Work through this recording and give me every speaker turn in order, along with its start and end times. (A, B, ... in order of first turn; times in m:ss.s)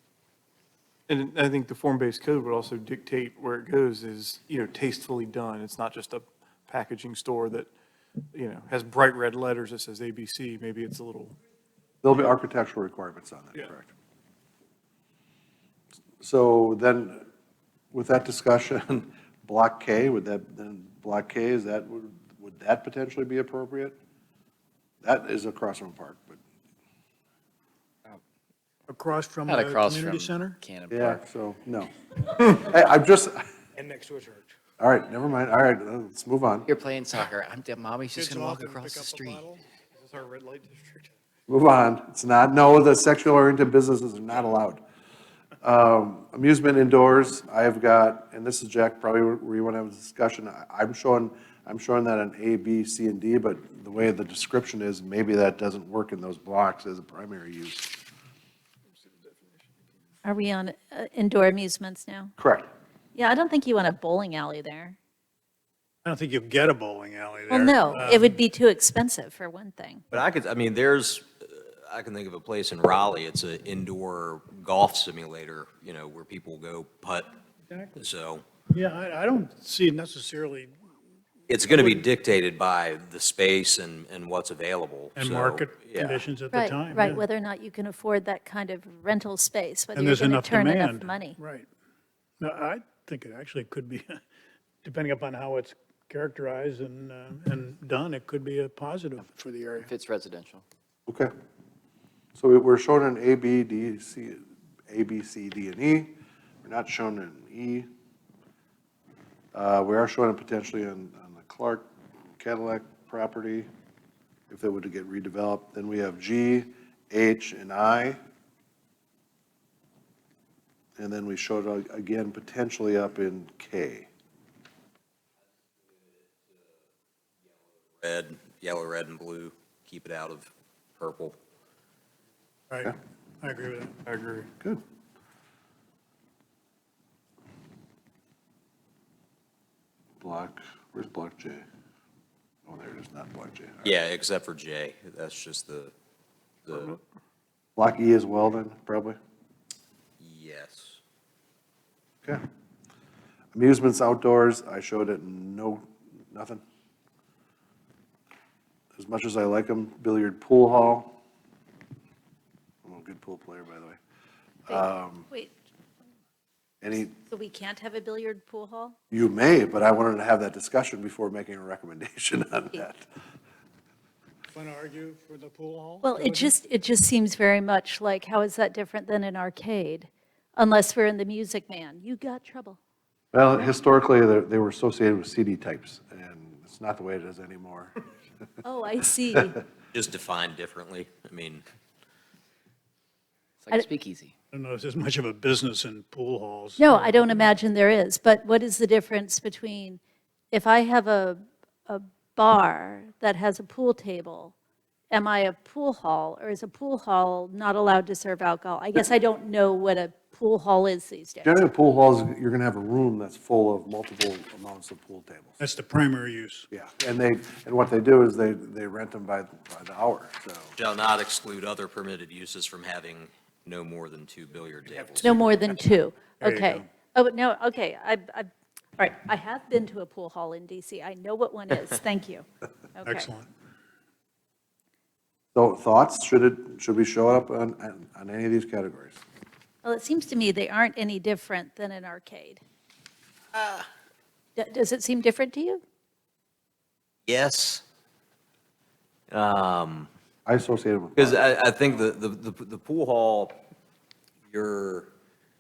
0:01.1-0:07.7 A
0:08.3-0:11.4 A
0:12.0-0:13.9 B
0:16.2-0:17.2 B
0:17.9-0:24.0 B
0:25.0-0:26.4 B
0:28.9-0:30.6 C
0:29.5-0:31.3 D
0:30.9-0:33.4 B
0:34.8-0:36.7 B
0:36.7-0:39.4 D
0:38.2-0:39.6 C
0:40.0-0:41.1 A
0:41.5-0:44.8 B
0:45.6-0:58.0 B
0:59.0-0:59.6 A
1:00.2-1:02.3 E
1:02.4-1:02.7 B
1:03.2-1:05.0 E
1:06.0-1:08.4 C
1:07.5-1:10.0 E
1:10.1-1:17.3 F
1:17.7-1:18.0 C
1:18.0-1:18.4 F
1:18.7-1:20.7 C
1:21.5-1:26.2 F
1:25.2-1:27.2 C
1:26.5-1:31.4 E
1:30.0-1:31.7 C
1:32.4-1:34.2 C
1:34.8-1:39.9 C
1:39.8-1:40.6 D
1:42.4-1:47.9 B
1:49.5-1:53.7 B
1:54.5-1:58.2 B
2:01.0-2:04.1 B
2:08.0-2:11.4 F
2:12.7-2:14.0 C
2:14.1-2:14.5 A
2:20.2-2:21.7 B
2:22.7-2:23.9 B
2:23.8-2:25.9 F
2:26.7-2:27.0 F
2:27.8-2:29.2 B
2:30.2-2:31.0 F
2:33.5-2:36.6 B
2:39.0-2:41.2 B
2:42.8-2:44.0 B
2:44.7-2:45.3 B
2:44.7-2:45.5 E
2:46.8-2:47.2 B
2:47.3-2:49.0 E
2:49.1-2:53.1 B
2:54.5-2:56.5 C
2:56.0-3:02.8 E
3:03.3-3:07.9 B
3:08.6-3:09.6 E
3:09.9-3:11.6 F
3:13.6-3:14.3 D
3:14.5-3:17.5 C
3:16.8-3:20.0 E
3:20.5-3:24.6 E
3:25.1-3:31.6 E
3:31.4-3:35.6 B
3:35.6-3:36.7 C
3:36.7-3:40.7 B
3:40.8-3:45.4 F
3:45.2-3:53.3 E
3:46.4-3:46.9 C
3:53.0-3:53.5 C
3:55.6-3:59.2 B
3:59.8-4:02.6 E
4:03.6-4:03.9 F
4:04.6-4:05.8 E
4:07.3-4:07.8 F
4:09.3-4:10.1 F
4:10.5-4:11.4 B
4:11.2-4:13.6 F
4:14.5-4:15.1 F